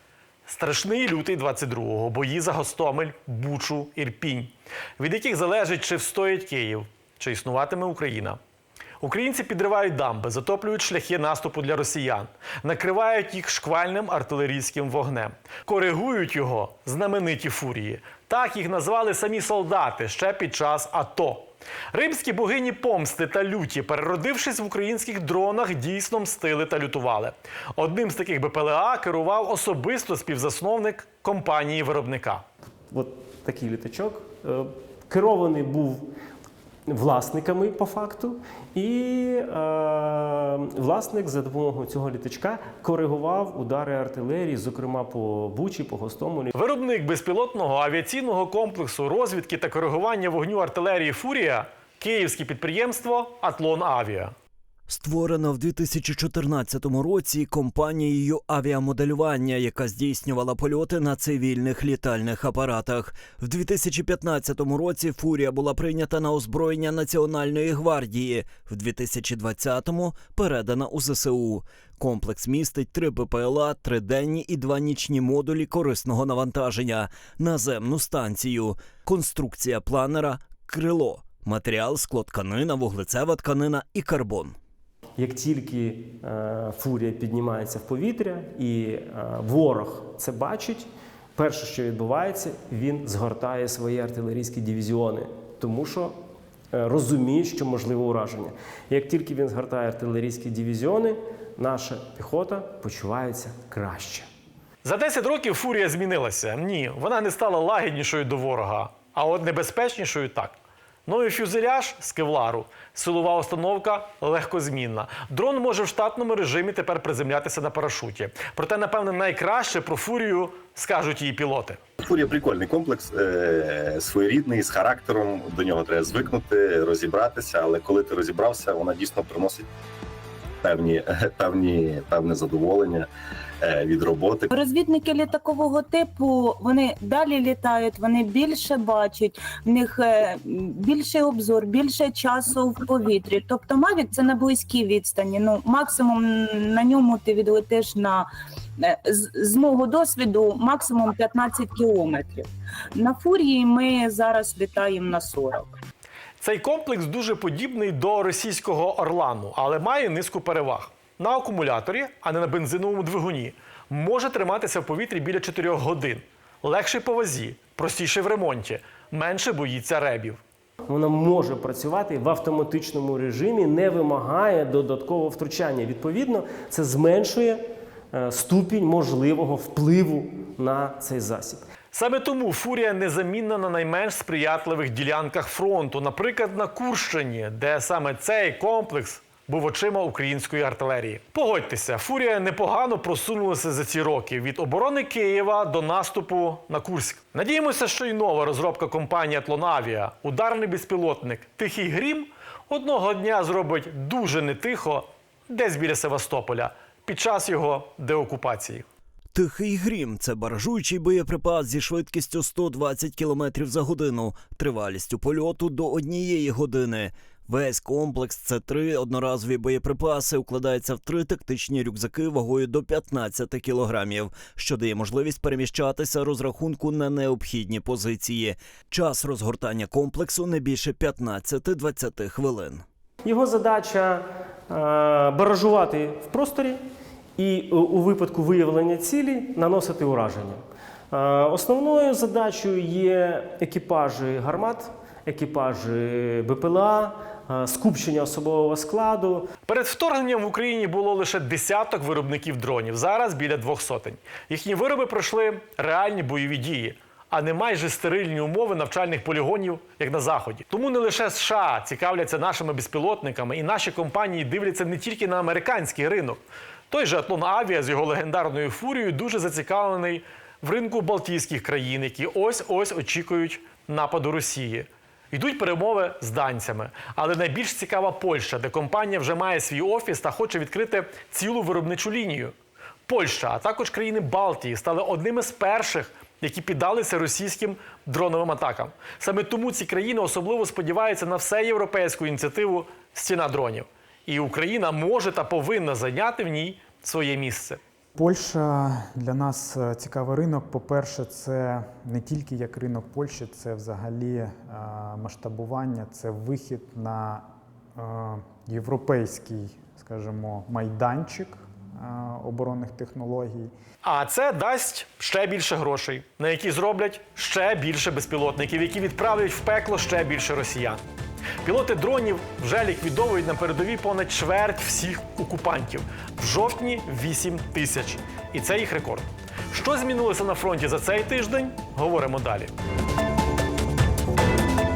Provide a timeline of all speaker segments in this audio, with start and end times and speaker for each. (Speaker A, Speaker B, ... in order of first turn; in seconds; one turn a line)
Speaker A: 0.5-8.4
Speaker A: 9.0-32.4
Speaker B: 32.9-36.1
Speaker B: 36.9-46.5
Speaker A: 46.5-54.3
Speaker C: 54.9-84.6
Speaker B: 85.2-96.2
Speaker B: 96.7-104.3
Speaker A: 104.8-121.8
Speaker D: 122.0-129.7
Speaker D: 130.6-133.1
Speaker D: 133.6-134.5
Speaker E: 134.5-155.7
Speaker A: 156.4-170.4
Speaker B: 170.9-181.6
Speaker A: 181.9-208.9
Speaker C: 209.3-232.8
Speaker B: 233.2-236.8
Speaker B: 237.4-249.5
Speaker A: 249.7-282.5
Speaker A: 283.1-297.8
Speaker F: 298.1-313.7
Speaker A: 314.0-321.0
Speaker A: 321.6-332.7